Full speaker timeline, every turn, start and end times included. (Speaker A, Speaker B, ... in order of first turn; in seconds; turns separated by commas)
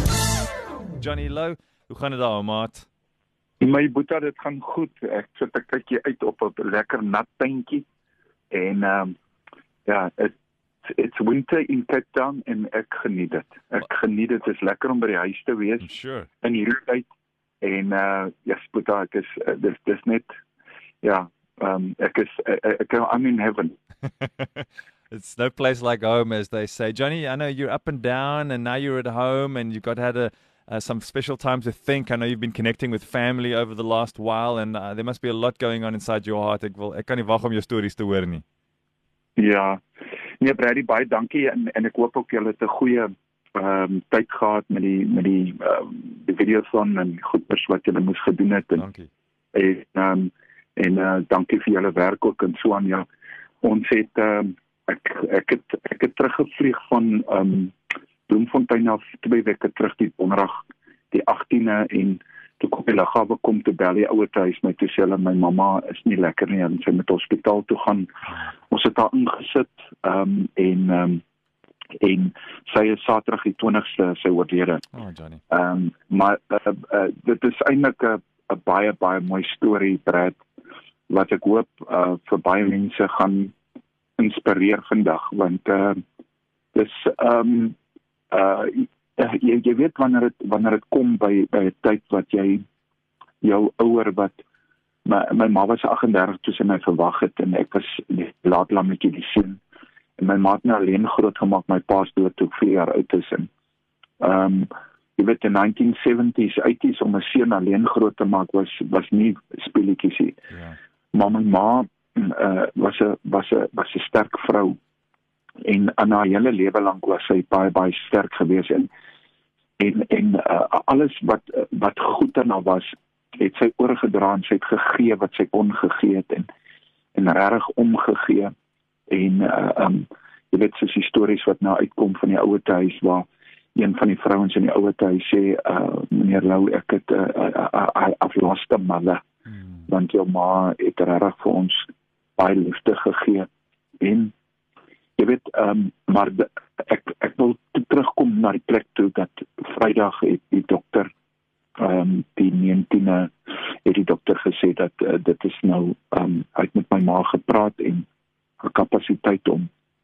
Speaker A: 1.0-2.9, Speaker B: 3.6-7.8, Speaker B: 8.5-9.2, Speaker B: 9.9-10.3, Speaker B: 10.8-15.9, Speaker A: 15.8-16.3, Speaker B: 16.4-17.1, Speaker B: 17.6-20.3, Speaker B: 21.0-23.8, Speaker A: 24.3-38.4, Speaker B: 39.4-39.8, Speaker B: 40.4-48.8, Speaker A: 48.8-49.1, Speaker B: 49.5-53.1, Speaker B: 53.6-57.8, Speaker B: 58.3-68.1, Speaker B: 68.7-71.2, Speaker B: 72.0-74.8, Speaker A: 74.9-75.4, Speaker B: 75.5-80.4, Speaker B: 81.1-83.5, Speaker B: 84.2-86.0, Speaker B: 86.7-87.8, Speaker B: 88.3-92.6, Speaker B: 93.4-94.4, Speaker B: 95.0-99.6, Speaker B: 100.2-103.5, Speaker B: 104.2-110.4, Speaker A: 110.5-110.8, Speaker B: 111.1-114.8, Speaker B: 115.6-118.9, Speaker B: 119.8-126.5, Speaker B: 127.2-128.5, Speaker B: 129.1-139.2, Speaker A: 139.6-139.8, Speaker B: 139.9-141.9, Speaker B: 142.4-143.5, Speaker B: 144.0-144.3, Speaker B: 145.2-151.1, Speaker B: 151.8-153.3, Speaker B: 153.8-158.1, Speaker B: 158.6-159.7